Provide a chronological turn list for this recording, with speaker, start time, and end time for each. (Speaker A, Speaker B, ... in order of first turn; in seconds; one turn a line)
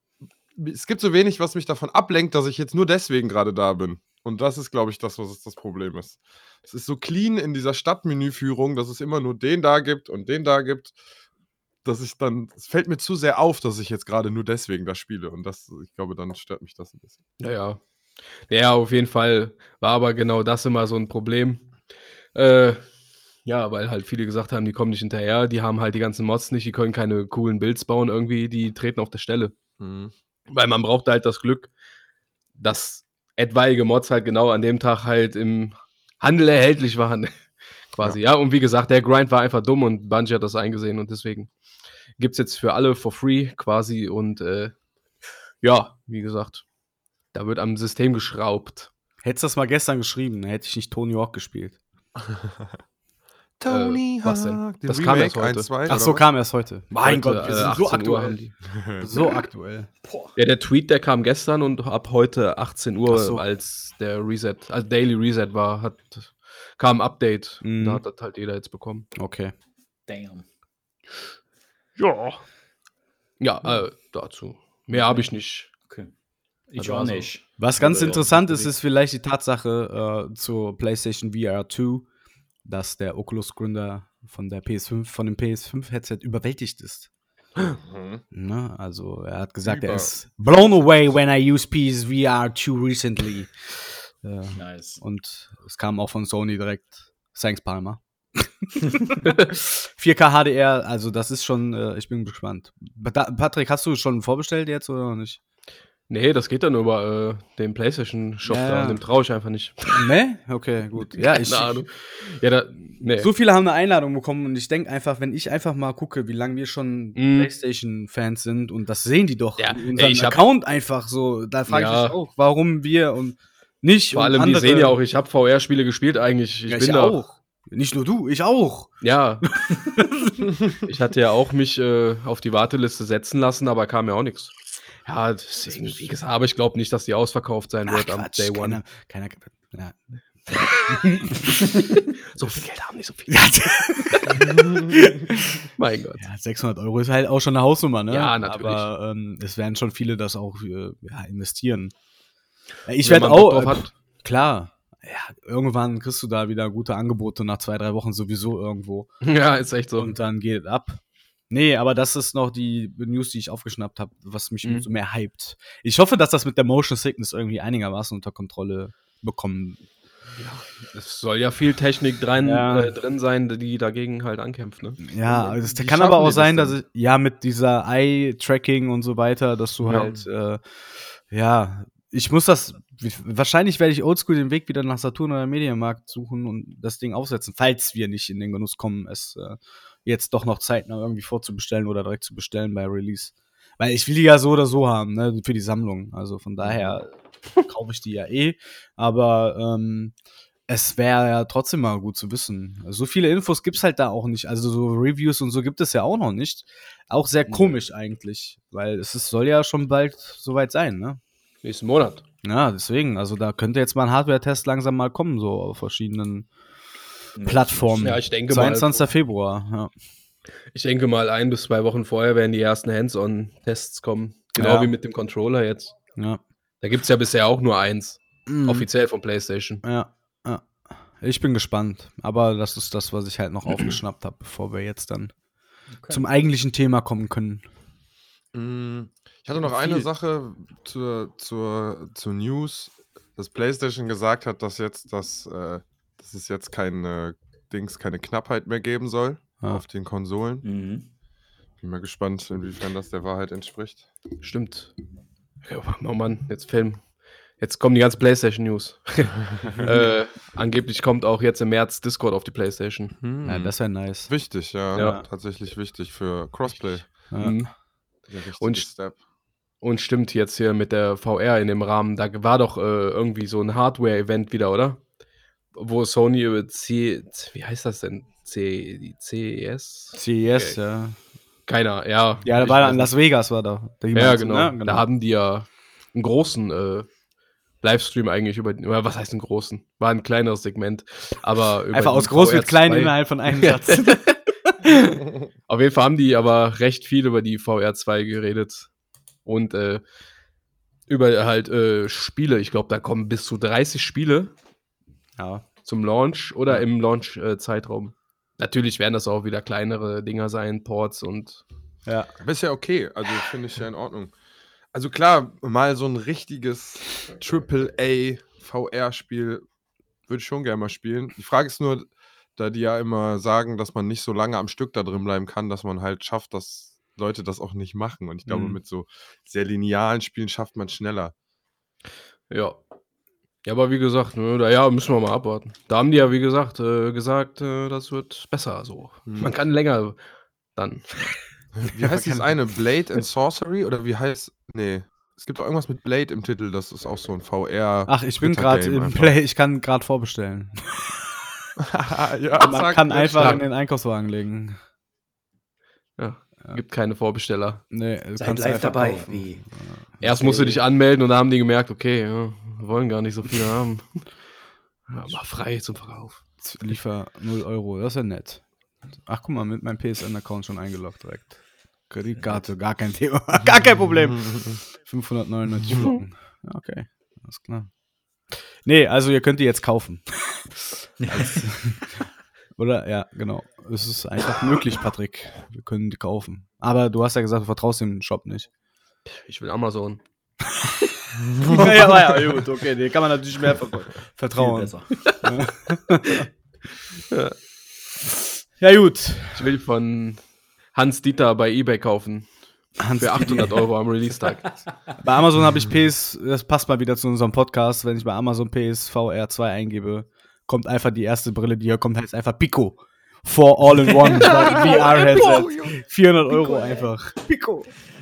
Speaker A: 0.6-11.0
Speaker A: 11.8-17.2
Speaker B: 17.4-17.8
Speaker B: 18.5-21.7
Speaker B: 22.4-22.8
Speaker B: 23.4-29.5
Speaker A: 29.8-30.1
Speaker B: 30.5-31.7
Speaker B: 32.6-37.3
Speaker B: 37.9-41.5
Speaker B: 42.2-44.7
Speaker B: 45.6-46.6
Speaker B: 47.3-48.9
Speaker C: 49.2-51.8
Speaker A: 52.3-52.7
Speaker A: 53.6-56.2
Speaker B: 53.7-55.7
Speaker C: 55.9-58.5
Speaker B: 57.0-58.5
Speaker A: 58.8-59.0
Speaker C: 59.0-59.9
Speaker D: 60.0-60.4
Speaker B: 60.4-69.1
Speaker C: 63.1-63.4
Speaker C: 67.6-68.0
Speaker C: 69.2-69.5
Speaker D: 70.1-70.5
Speaker B: 72.0-72.4
Speaker B: 73.4-75.7
Speaker D: 74.9-75.3
Speaker D: 76.7-78.7
Speaker B: 76.8-77.3
Speaker C: 77.6-82.1
Speaker C: 82.7-87.1
Speaker A: 87.8-88.2
Speaker C: 88.3-93.5
Speaker A: 89.7-90.1
Speaker C: 94.2-105.4
Speaker D: 94.5-95.0
Speaker B: 106.1-110.1
Speaker C: 108.5-109.0
Speaker C: 109.9-111.8
Speaker B: 111.1-113.3
Speaker C: 113.2-125.0
Speaker B: 117.2-117.5
Speaker B: 119.6-120.4
Speaker B: 121.7-122.2
Speaker B: 124.1-127.2
Speaker C: 126.7-128.9
Speaker B: 129.0-129.5
Speaker C: 129.7-130.4
Speaker B: 130.8-134.5
Speaker B: 135.1-138.8
Speaker C: 135.7-136.1
Speaker C: 137.9-141.8
Speaker B: 140.5-144.5
Speaker C: 143.3-145.7
Speaker A: 144.4-145.1
Speaker B: 145.8-146.2
Speaker C: 146.2-151.9
Speaker B: 148.1-148.9
Speaker C: 152.9-159.1
Speaker B: 153.0-153.9
Speaker B: 159.2-160.1
Speaker C: 160.0-169.8
Speaker B: 170.4-175.0
Speaker C: 172.4-172.9
Speaker C: 175.0-180.6
Speaker A: 175.3-176.8
Speaker A: 179.9-180.2
Speaker C: 181.3-200.1
Speaker D: 196.6-197.0
Speaker C: 200.7-211.2
Speaker B: 211.6-212.2
Speaker C: 212.4-216.5
Speaker D: 217.4-218.2
Speaker C: 217.5-219.9
Speaker B: 218.0-219.0
Speaker B: 220.7-225.9
Speaker C: 224.6-224.9
Speaker B: 226.8-229.8
Speaker C: 228.5-228.9
Speaker C: 229.8-230.7
Speaker C: 231.2-235.3
Speaker D: 235.9-236.2
Speaker C: 236.1-237.6
Speaker A: 238.5-250.7
Speaker C: 239.6-240.1
Speaker D: 250.6-251.1
Speaker A: 251.8-254.1
Speaker B: 254.4-254.9
Speaker B: 255.6-257.0
Speaker B: 257.6-263.1
Speaker A: 259.6-259.9
Speaker A: 263.2-267.1
Speaker C: 263.4-264.3
Speaker C: 264.9-265.2
Speaker B: 264.9-265.2
Speaker B: 267.2-267.7
Speaker C: 267.3-267.6
Speaker A: 268.3-269.2
Speaker B: 268.6-268.9
Speaker B: 269.8-275.0
Speaker B: 275.8-280.8
Speaker C: 280.2-281.2
Speaker B: 281.7-283.1
Speaker C: 282.4-285.1
Speaker B: 284.1-287.1
Speaker B: 287.8-295.0
Speaker C: 291.9-295.1
Speaker B: 295.7-298.9
Speaker B: 299.4-300.0
Speaker B: 301.1-304.5
Speaker C: 305.4-305.6
Speaker B: 305.9-311.6
Speaker C: 312.1-312.3
Speaker A: 312.4-314.3
Speaker A: 314.9-319.6
Speaker A: 320.3-331.3
Speaker C: 328.5-328.8
Speaker B: 332.5-332.8
Speaker B: 333.6-340.2
Speaker A: 339.3-339.5
Speaker B: 340.8-341.4
Speaker A: 341.8-349.4
Speaker C: 341.9-342.5
Speaker C: 348.1-351.2
Speaker A: 351.8-353.6
Speaker C: 352.6-354.8
Speaker B: 353.4-353.6
Speaker B: 356.2-357.8
Speaker C: 357.9-360.2
Speaker D: 358.4-359.6
Speaker B: 360.2-364.2
Speaker D: 360.2-360.8
Speaker B: 365.1-366.4
Speaker C: 366.6-368.6
Speaker C: 369.3-377.9
Speaker D: 372.4-372.7
Speaker A: 374.3-374.8
Speaker C: 378.5-380.8
Speaker D: 381.2-381.7
Speaker C: 381.3-382.2
Speaker C: 382.8-388.7
Speaker B: 389.4-390.2
Speaker A: 391.4-392.1
Speaker C: 391.6-396.5
Speaker D: 394.6-395.3
Speaker C: 398.8-399.7
Speaker B: 399.6-400.4
Speaker B: 400.9-402.5
Speaker B: 403.0-404.8
Speaker C: 403.0-403.8
Speaker C: 405.2-417.9
Speaker B: 414.5-415.7
Speaker D: 414.7-415.6
Speaker D: 416.5-417.1